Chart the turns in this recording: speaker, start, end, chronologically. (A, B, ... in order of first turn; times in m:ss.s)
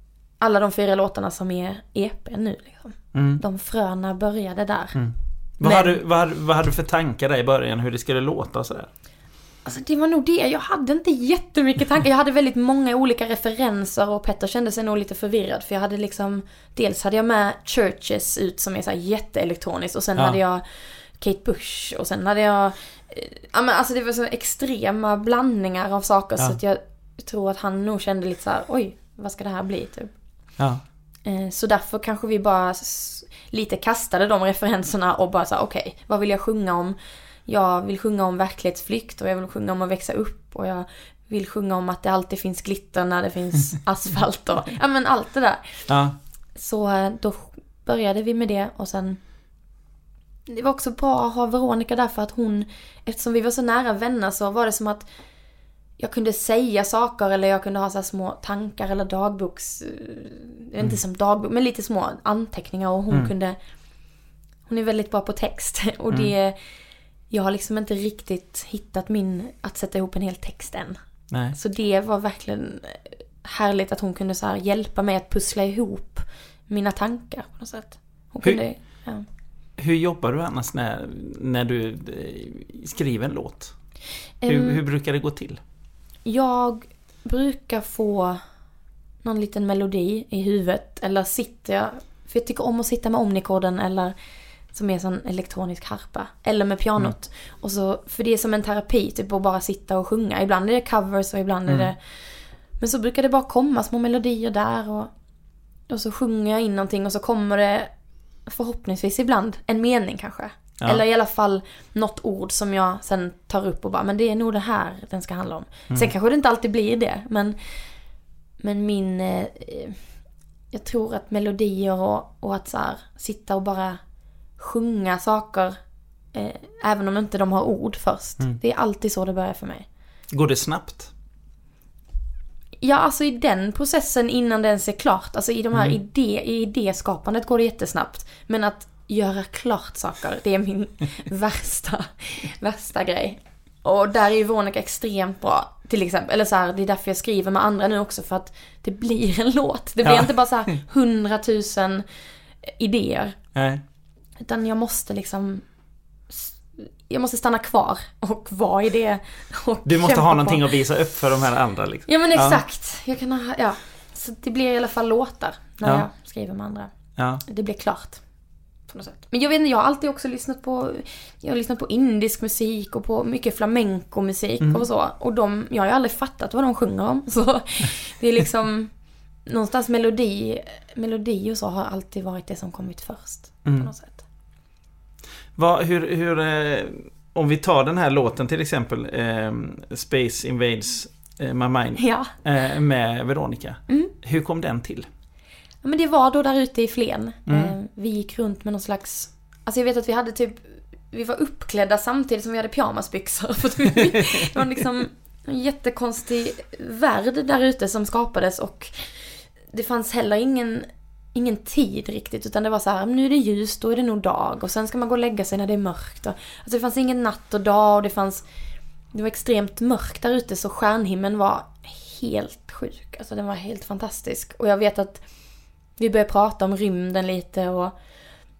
0:00.4-0:05.0 A
0:03.1-0:03.4 B
0:04.9-0:08.9 B
0:05.6-0:06.0 A
0:09.6-0:30.1 A
0:31.2-0:45.8 A
0:45.9-0:46.1 B
0:46.6-0:49.2 A
0:50.5-0:55.1 A
0:56.0-1:03.6 A
1:04.7-1:06.6 A
1:07.3-1:11.0 A
1:11.3-1:11.6 B
1:11.5-1:19.2 A
1:19.8-1:23.7 B
1:24.4-1:24.8 A
1:24.4-1:25.6 B
1:26.2-1:28.4 A
1:29.2-1:34.1 A
1:34.7-1:45.1 A
1:41.7-1:41.9 B
1:45.9-1:47.9 A
1:48.5-1:57.6 A
1:58.6-2:00.0 A
2:00.7-2:04.0 A
2:04.6-2:05.8 A
2:06.3-2:09.8 A
2:10.3-2:11.1 B
2:12.8-2:32.0 A
2:30.0-2:30.3 B
2:32.6-2:33.4 A
2:33.5-2:33.8 B
2:34.4-2:35.6 A
2:36.3-2:40.6 A
2:39.8-2:42.6 B
2:42.1-2:46.9 A
2:47.2-2:47.4 B
2:47.4-2:48.2 A
2:48.9-2:58.9 A
2:54.6-2:54.8 B
2:59.4-3:04.2 A
3:03.6-3:03.9 B
3:05.6-3:15.1 B
3:12.0-3:12.3 A
3:15.8-3:38.4 A
3:17.5-3:17.7 B
3:39.1-3:45.2 A
3:46.0-3:47.9 A